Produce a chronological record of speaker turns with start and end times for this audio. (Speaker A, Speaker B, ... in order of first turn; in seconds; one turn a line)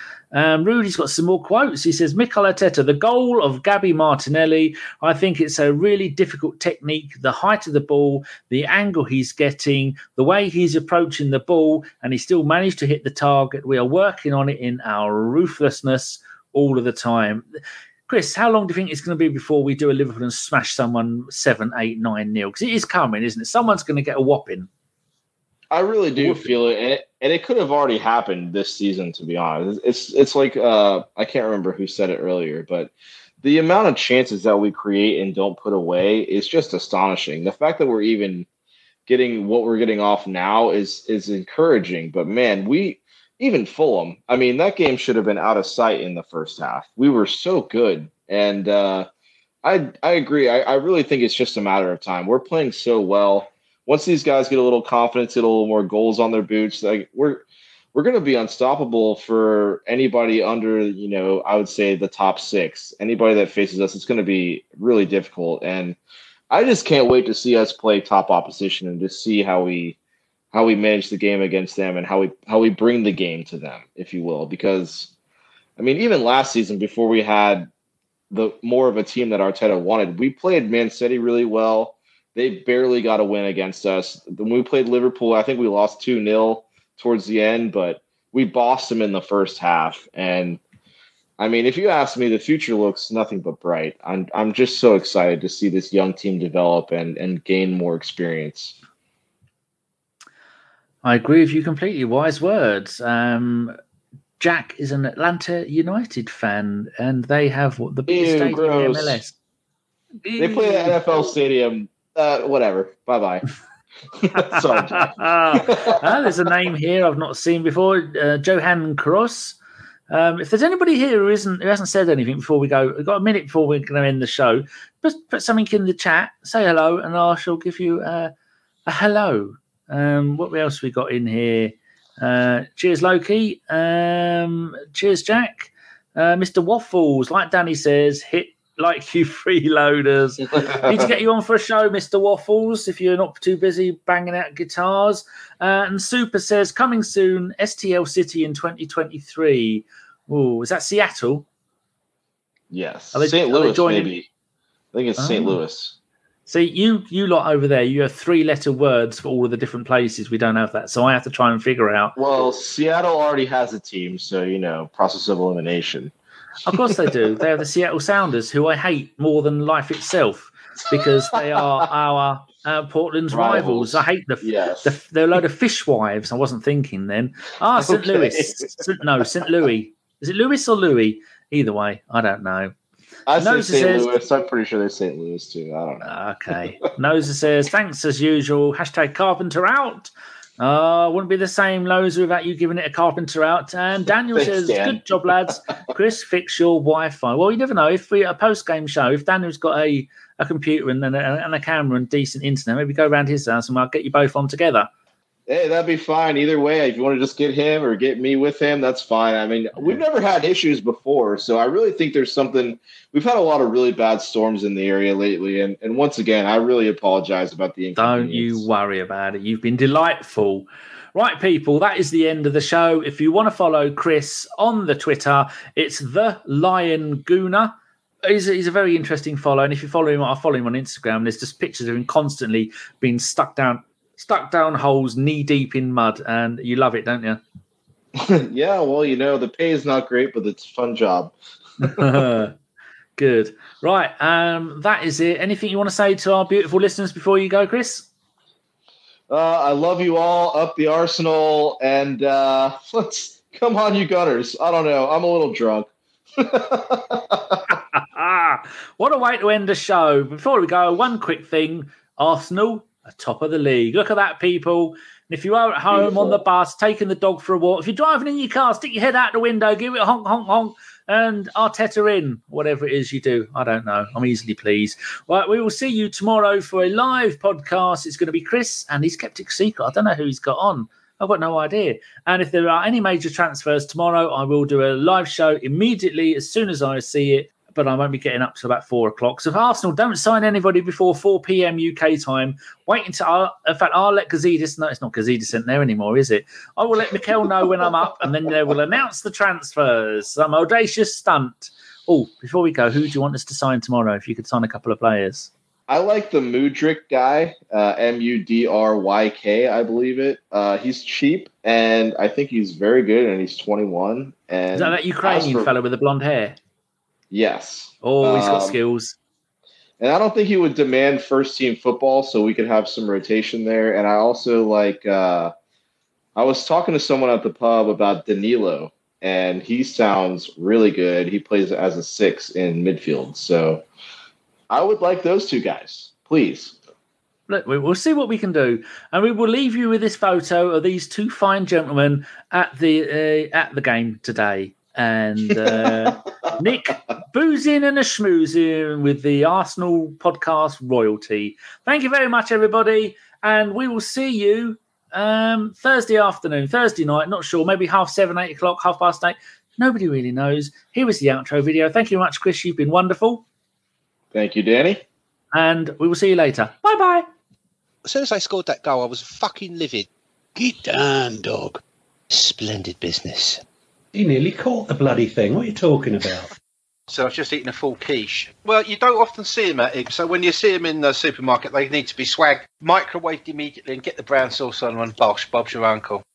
Speaker A: 0.3-17.4
Speaker A: 18.1-24.7
Speaker B: 25.7-38.5
Speaker A: 26.2-26.5
Speaker B: 39.1-49.1
Speaker B: 49.6-66.0
Speaker B: 66.5-70.0
Speaker B: 70.5-75.1
Speaker B: 75.8-77.7
Speaker B: 78.3-90.6
Speaker B: 91.4-98.8
Speaker A: 101.0-103.8
Speaker A: 104.4-109.3
Speaker B: 108.1-109.2
Speaker A: 110.2-111.0
Speaker B: 110.4-113.4
Speaker B: 114.2-116.0
Speaker A: 114.3-119.6
Speaker A: 120.1-128.3
Speaker A: 128.9-151.5
Speaker B: 152.7-154.3
Speaker A: 153.1-154.1
Speaker B: 154.9-156.0
Speaker A: 155.2-155.6
Speaker A: 156.5-162.2
Speaker B: 162.2-166.1
Speaker A: 166.7-182.8
Speaker B: 166.7-167.1
Speaker B: 173.3-174.9
Speaker B: 177.8-178.7
Speaker B: 183.3-186.1
Speaker A: 183.4-184.1
Speaker A: 186.0-204.9
Speaker B: 194.3-195.0
Speaker B: 205.5-218.7
Speaker A: 218.0-237.4
Speaker B: 238.2-242.1
Speaker A: 241.8-242.5
Speaker A: 243.2-248.1
Speaker B: 249.3-257.6
Speaker A: 257.9-305.5
Speaker B: 265.9-266.4
Speaker B: 297.1-297.4
Speaker B: 305.9-315.7
Speaker A: 314.7-316.6
Speaker B: 317.3-318.8
Speaker A: 318.0-319.2
Speaker B: 320.0-325.5
Speaker B: 326.4-333.8
Speaker B: 334.7-336.8
Speaker A: 337.5-363.4
Speaker B: 364.3-365.0
Speaker A: 365.5-367.3
Speaker C: 368.0-370.1
Speaker D: 370.6-371.8
Speaker D: 372.3-373.6
Speaker E: 374.1-376.5
Speaker C: 377.1-386.2